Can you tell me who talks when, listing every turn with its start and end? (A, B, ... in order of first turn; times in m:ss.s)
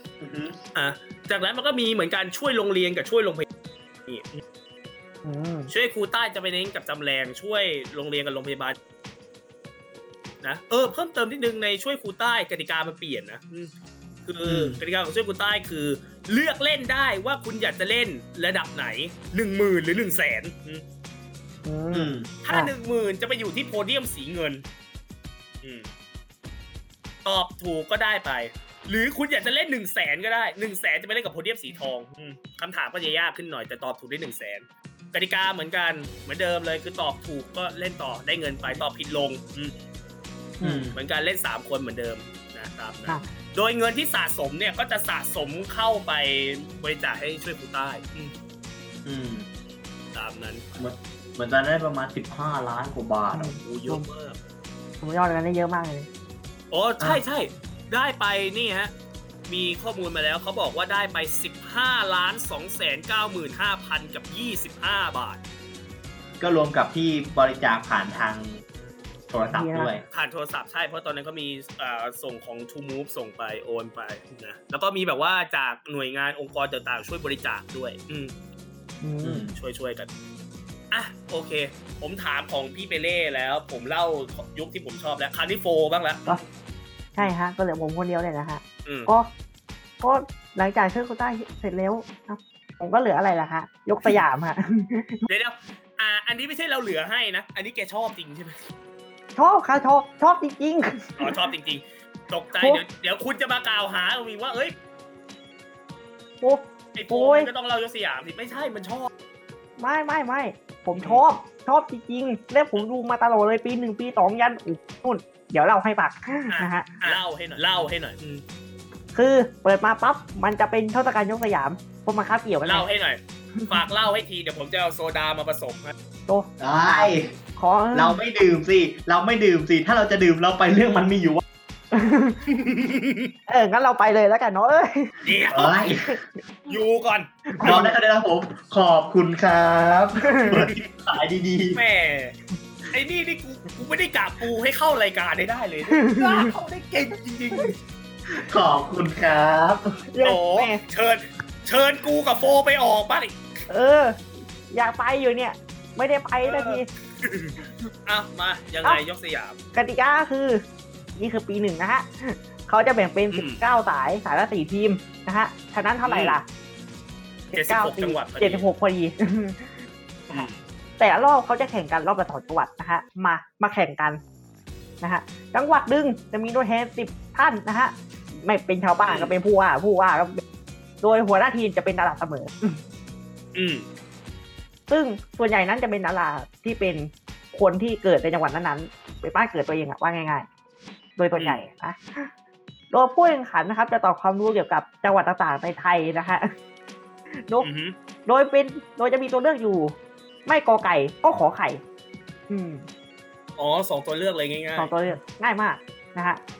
0:00.2-0:00.6 A
0:00.8-0:03.5 B
0:04.1-0:04.4 B
0:05.2-0:05.7 C
0:05.7-0:08.8 B
0:10.4-0:13.7 B
0:14.2-0:20.8 B
0:14.4-0:14.8 A
0:21.6-0:22.7 C
0:21.9-0:22.3 A
0:22.4-0:24.6 B
0:25.6-0:25.9 B
0:27.2-0:39.7 B
0:40.6-0:40.9 C
0:40.6-0:41.0 A
0:41.0-0:48.3 B
0:49.0-0:49.5 A
0:50.1-0:50.7 B
0:50.8-0:53.5 A
0:53.3-0:54.0 C
0:53.6-0:54.4 B
0:55.0-0:56.1 C
0:56.7-0:58.9 B
0:59.5-1:05.4 B
1:06.4-1:08.6 A
1:09.3-1:10.0 A
1:09.5-1:10.0 C
1:10.1-1:18.3 B
1:19.0-1:19.5 C
1:19.2-1:19.5 A
1:19.6-1:20.1 B
1:20.9-1:26.4 B
1:27.2-1:29.3 C
1:28.8-1:29.1 B
1:30.0-1:35.2 C
1:35.3-1:38.6 B
1:39.4-1:41.4 C
1:41.2-1:44.8 B
1:42.6-1:42.8 C
1:46.4-1:47.5 C
1:47.0-1:49.1 B
1:49.8-1:57.2 C
1:51.0-1:51.2 B
1:56.5-1:58.4 B
1:59.1-2:02.8 C
2:02.6-2:05.9 B
2:03.6-2:03.8 C
2:06.3-2:08.2 C
2:06.6-2:07.4 A
2:07.9-2:11.4 A
2:11.9-2:12.4 C
2:12.5-2:13.3 B
2:13.5-2:15.3 C
2:15.2-2:15.8 B
2:15.5-2:16.1 A
2:16.0-2:16.4 C
2:16.7-2:17.8 B
2:17.5-2:17.9 C
2:17.6-2:21.8 A
2:20.2-2:20.5 C
2:21.8-2:22.4 B
2:22.9-2:27.8 B
2:25.9-2:26.5 C
2:28.5-2:29.9 A
2:30.1-2:30.8 C
2:30.2-2:33.4 B
2:33.7-2:36.9 C
2:36.4-2:39.6 B
2:39.7-2:40.6 C
2:41.2-2:46.4 C
2:43.3-2:43.6 B
2:46.0-2:46.4 B
2:47.5-2:48.7 B
2:47.5-2:49.8 C
2:50.3-2:50.6 B
2:50.3-2:54.2 C
2:55.0-3:00.4 C
2:59.1-2:59.3 B
3:01.0-3:02.8 C
3:03.6-3:03.8 B
3:04.9-3:10.5 C
3:11.2-3:12.3 C
3:12.9-3:16.5 C
3:17.6-3:18.0 B
3:18.3-3:20.0 C
3:20.5-3:21.8 C
3:22.5-3:22.9 C
3:23.6-3:24.9 B
3:24.8-3:26.4 C